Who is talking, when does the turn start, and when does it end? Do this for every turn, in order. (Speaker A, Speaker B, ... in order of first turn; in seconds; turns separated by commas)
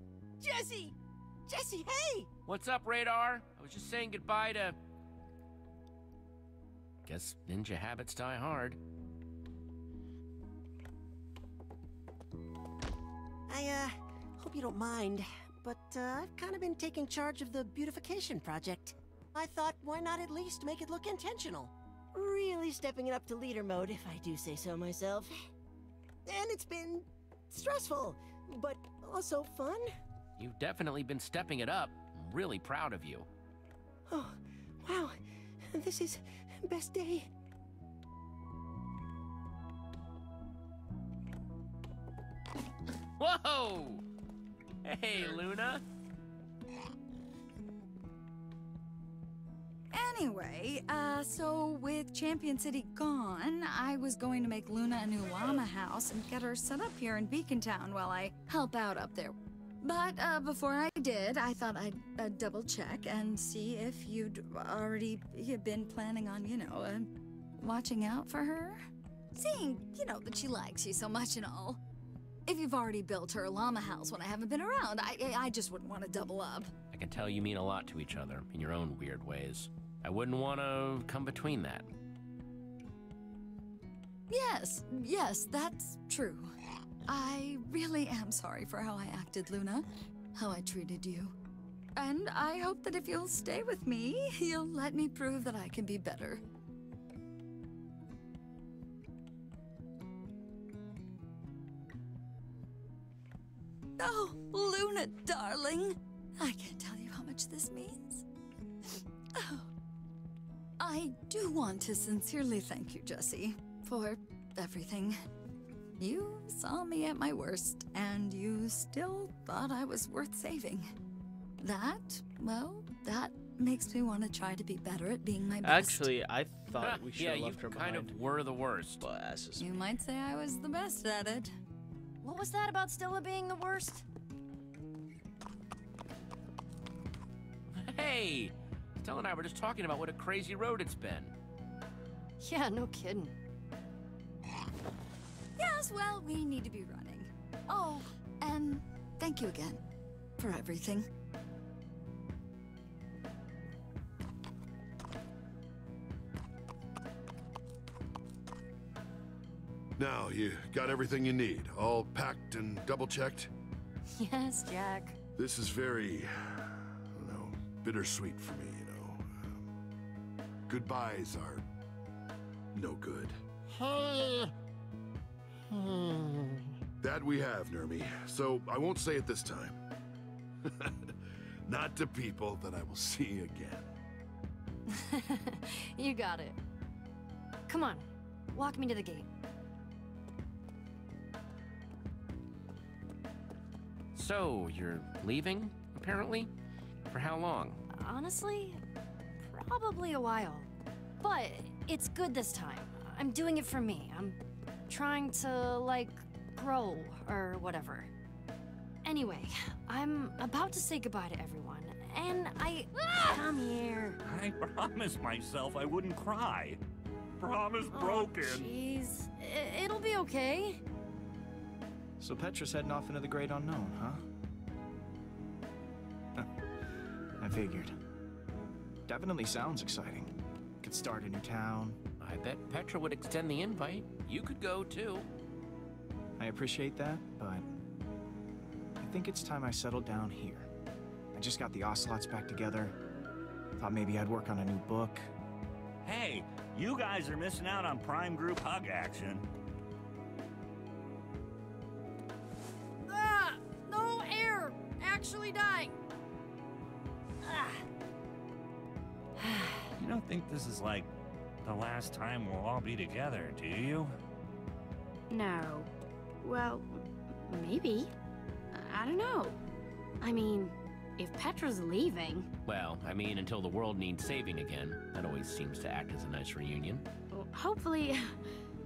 Speaker A: 0.4-0.9, Speaker A: 1.5-2.3, Speaker B: 2.5-4.8, Speaker B: 7.0-8.8, Speaker A: 13.5-25.3, Speaker A: 26.2-29.9, Speaker B: 30.4-33.3, Speaker A: 34.1-37.3, Speaker B: 43.2-44.0, Speaker B: 44.8-45.8, Speaker C: 49.9-68.8, Speaker C: 69.3-71.8, Speaker C: 72.5-76.7, Speaker B: 76.9-81.9, Speaker C: 84.3-86.5, Speaker C: 87.1-91.3, Speaker C: 92.0-96.4, Speaker C: 104.0-108.2, Speaker C: 109.3-109.7, Speaker C: 110.8-115.2, Speaker C: 116.0-120.9, Speaker C: 121.6-126.1, Speaker D: 125.6-128.1, Speaker B: 126.8-129.0, Speaker D: 129.0-129.7, Speaker C: 129.6-131.5, Speaker E: 132.2-134.0, Speaker B: 137.7-141.3, Speaker E: 142.4-143.3, Speaker C: 145.6-149.8, Speaker C: 150.4-151.1, Speaker F: 160.0-163.5, Speaker E: 164.2-165.1, Speaker F: 165.3-169.6, Speaker F: 170.7-171.7, Speaker F: 172.7-174.5, Speaker F: 175.7-176.5, Speaker F: 177.0-179.8, Speaker F: 180.6-183.9, Speaker E: 184.9-186.6, Speaker E: 187.7-189.3, Speaker B: 194.1-196.5, Speaker B: 197.1-197.8, Speaker E: 197.9-198.8, Speaker E: 199.4-200.7, Speaker E: 201.2-204.4, Speaker E: 204.9-208.1, Speaker E: 209.0-214.2, Speaker G: 214.2-216.8, Speaker G: 217.4-218.7, Speaker E: 217.9-220.8, Speaker H: 222.2-224.2, Speaker H: 227.4-227.9, Speaker H: 229.1-232.0, Speaker B: 232.2-235.3, Speaker H: 236.4-237.7, Speaker H: 239.0-240.7, Speaker H: 241.3-242.9, Speaker H: 243.8-245.3, Speaker G: 246.0-249.4, Speaker E: 253.1-255.9, Speaker G: 260.0-261.1, Speaker G: 261.6-264.1, Speaker I: 265.3-265.9, Speaker I: 266.4-268.1, Speaker I: 268.7-269.6, Speaker I: 270.2-272.5, Speaker B: 272.6-277.0, Speaker I: 277.3-278.4